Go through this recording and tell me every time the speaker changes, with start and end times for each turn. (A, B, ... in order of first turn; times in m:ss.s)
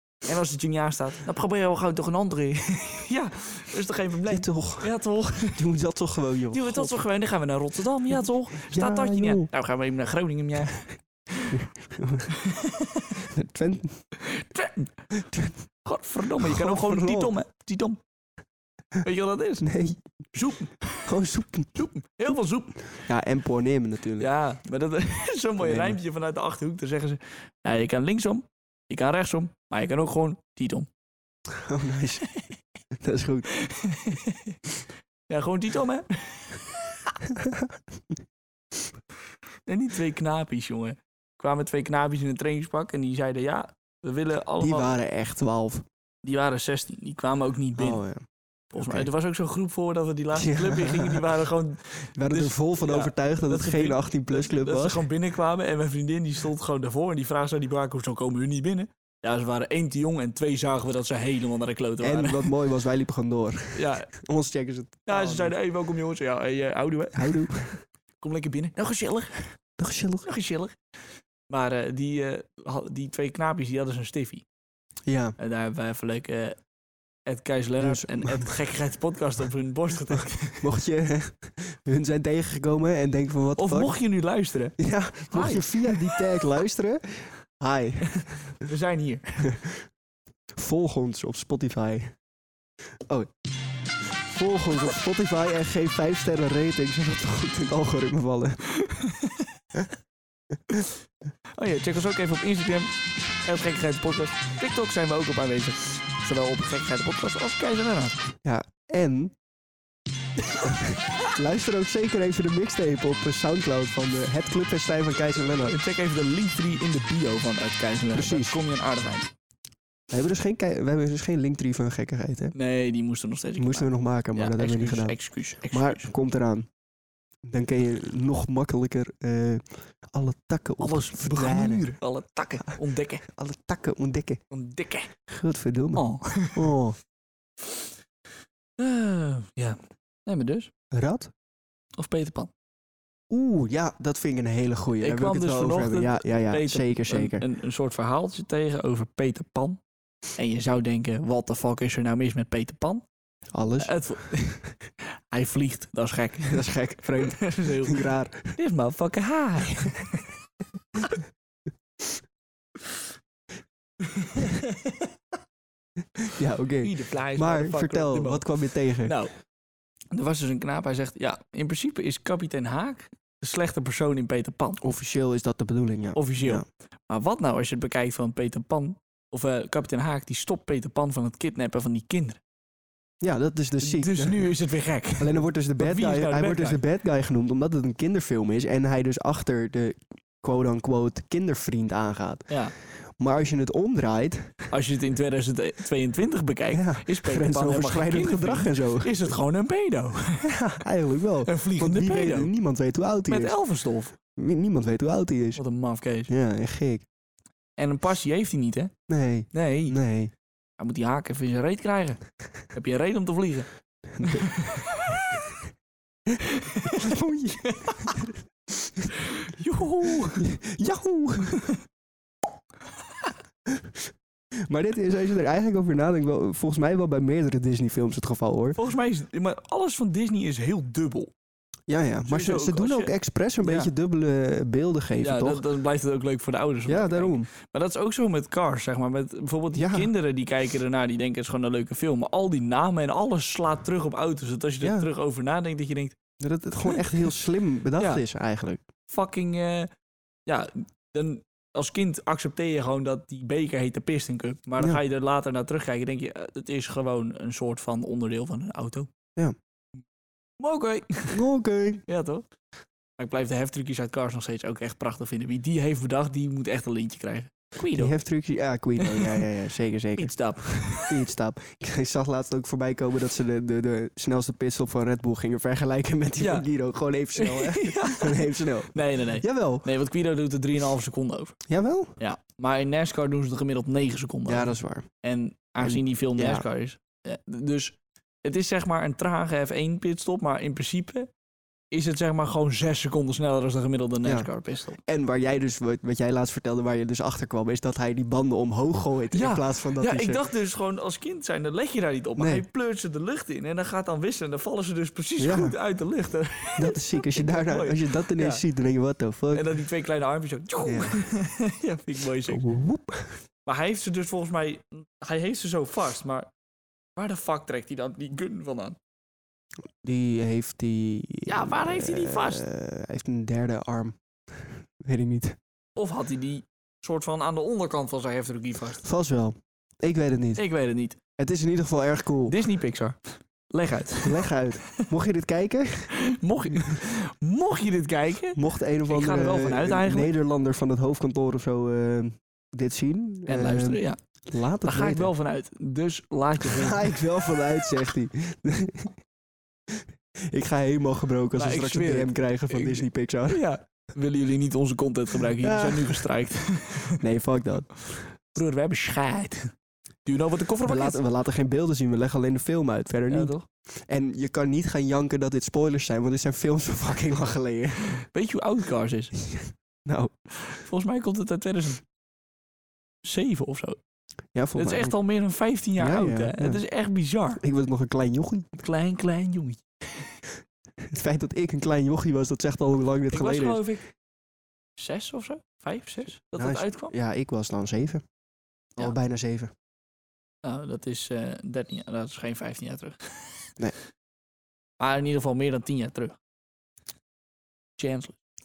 0:00.2-0:05.6 A
0:04.3-0:04.9 B
0:05.5-0:07.0 B
0:06.5-0:11.5 A
0:08.6-0:09.5 B
0:11.5-0:12.4 B
0:12.4-0:13.1 A
0:13.3-0:14.0 B
0:14.2-0:15.0 A
0:15.2-0:15.5 B
0:15.8-0:18.0 A
0:16.4-0:17.3 B
0:19.0-0:19.7 A
0:19.6-0:20.0 B
0:20.3-0:21.1 A
0:21.0-0:21.7 B
0:21.8-0:22.8 A
0:23.0-0:24.3 B
0:24.2-0:30.9 A
0:25.6-0:26.0 B
0:31.6-0:32.2 B
0:33.0-0:33.5 B
0:33.5-0:34.6 A
0:35.3-0:37.1 A
0:37.3-0:37.7 B
0:39.6-0:44.9 A
0:44.6-0:45.8 B
0:46.2-0:48.0 A
0:47.8-0:48.2 B
0:48.7-1:02.5 A
0:48.8-0:49.1 B
0:50.3-0:51.3 B
0:52.1-0:55.0 B
1:02.0-1:05.5 B
1:03.8-1:04.1 A
1:05.1-1:07.5 A
1:07.1-1:07.8 B
1:08.2-1:09.6 A
1:09.8-1:10.3 B
1:10.2-1:10.8 A
1:11.5-1:14.4 A
1:15.1-1:15.4 B
1:15.4-1:16.6 A
1:17.2-1:20.6 A
1:17.8-1:18.5 B
1:20.6-1:23.9 B
1:23.6-1:24.8 A
1:24.8-1:28.5 B
1:25.3-1:26.3 A
1:28.6-1:29.5 A
1:30.6-1:32.1 B
1:34.2-1:38.6 B
1:38.8-1:39.6 A
1:41.5-1:48.2 A
1:48.4-1:49.3 B
1:50.6-1:55.8 B
1:55.6-1:59.3 A
1:58.1-1:58.6 B
2:00.1-2:02.5 B
2:02.5-2:06.1 A
2:03.6-2:06.7 B
2:07.5-2:12.0 B
2:10.8-2:13.2 A
2:12.7-2:14.4 B
2:14.5-2:15.1 A
2:15.3-2:17.0 B
2:16.0-2:16.7 A
2:18.8-2:20.7 A
2:20.9-2:21.3 B
2:22.0-2:22.5 A
2:23.3-2:27.4 B
2:25.0-2:29.8 A
2:30.4-2:33.0 A
2:33.5-2:34.0 B
2:33.8-2:40.3 A
2:36.4-2:38.6 B
2:44.0-2:45.1 A
2:46.2-2:49.2 B
2:46.8-2:48.5 A
2:49.0-2:49.3 A
2:50.1-2:54.8 A
2:54.8-2:56.6 B
2:56.1-3:02.4 A
3:03.2-3:04.5 B
3:03.8-3:06.8 A
3:05.2-3:14.6 B
3:14.7-3:20.5 A
3:16.7-3:19.1 B
3:20.4-3:23.5 B
3:21.5-3:22.5 A
3:23.3-3:24.1 A
3:24.4-3:25.6 B
3:25.6-3:26.3 A
3:26.3-3:27.0 B
3:27.8-3:28.9 A
3:29.1-3:30.3 B
3:29.5-3:30.0 A
3:30.8-3:32.2 A
3:32.7-3:33.7 A
3:34.1-3:34.6 B
3:34.2-3:35.3 A
3:36.3-3:38.4 B
3:36.4-3:37.1 A
3:37.6-3:38.1 A
3:39.2-3:40.5 A
3:40.3-3:41.7 B
3:44.7-3:48.8 B
3:48.8-3:51.3 A
3:51.9-3:55.6 B
3:52.2-3:53.9 A
3:55.2-4:06.2 A
3:56.8-3:57.5 B
3:59.8-4:00.1 B
4:04.8-4:05.1 B
4:06.4-4:08.8 B
4:06.8-4:07.3 A
4:09.1-4:09.9 A
4:10.5-4:19.1 A
4:20.6-4:21.4 A
4:21.3-4:22.0 B
4:22.1-4:22.4 A
4:23.2-4:28.2 A
4:27.9-4:39.9 B
4:29.0-4:29.4 A
4:30.2-4:31.2 A
4:36.4-4:36.7 A
4:37.4-4:41.6 A
4:41.7-4:42.2 B
4:42.2-4:51.3 A
4:44.5-4:45.1 B
4:45.8-4:46.7 B
4:51.9-4:55.0 A
4:55.0-5:00.4 B
4:59.3-5:08.6 A
5:02.4-5:02.6 B
5:05.4-5:05.8 B
5:06.8-5:09.7 B
5:09.5-5:12.6 A
5:10.8-5:11.2 B
5:12.5-5:13.4 B
5:13.7-5:16.5 A
5:17.2-5:19.0 A
5:20.0-5:25.6 B
5:21.5-5:22.6 A
5:26.0-5:29.0 A
5:29.0-5:30.6 B
5:30.6-5:31.2 A
5:31.4-5:32.6 B
5:32.5-5:34.4 A
5:34.2-5:36.1 B
5:36.2-5:40.3 A
5:38.6-5:45.3 B
5:43.5-5:44.2 A
5:44.8-5:47.6 A
5:46.6-5:49.2 B
5:50.5-5:53.6 B
5:51.6-5:57.2 A
5:55.6-5:56.2 B
5:57.2-5:58.3 B
5:58.5-5:59.7 A
6:00.2-6:01.2 A
6:00.8-6:03.5 B
6:03.3-6:03.7 A
6:04.1-6:08.2 B
6:08.2-6:09.3 A
6:09.4-6:10.3 B
6:10.7-6:12.0 A
6:13.2-6:14.0 A
6:14.5-6:15.2 B
6:14.8-6:17.6 A
6:16.0-6:16.8 B
6:17.6-6:18.7 B
6:18.8-6:20.4 A
6:21.1-6:23.8 B
6:23.3-6:24.0 A
6:25.0-6:27.1 A
6:26.5-6:28.2 B
6:29.0-6:29.7 B
6:30.6-6:33.7 A
6:35.0-6:36.4 A
6:38.0-6:38.4 A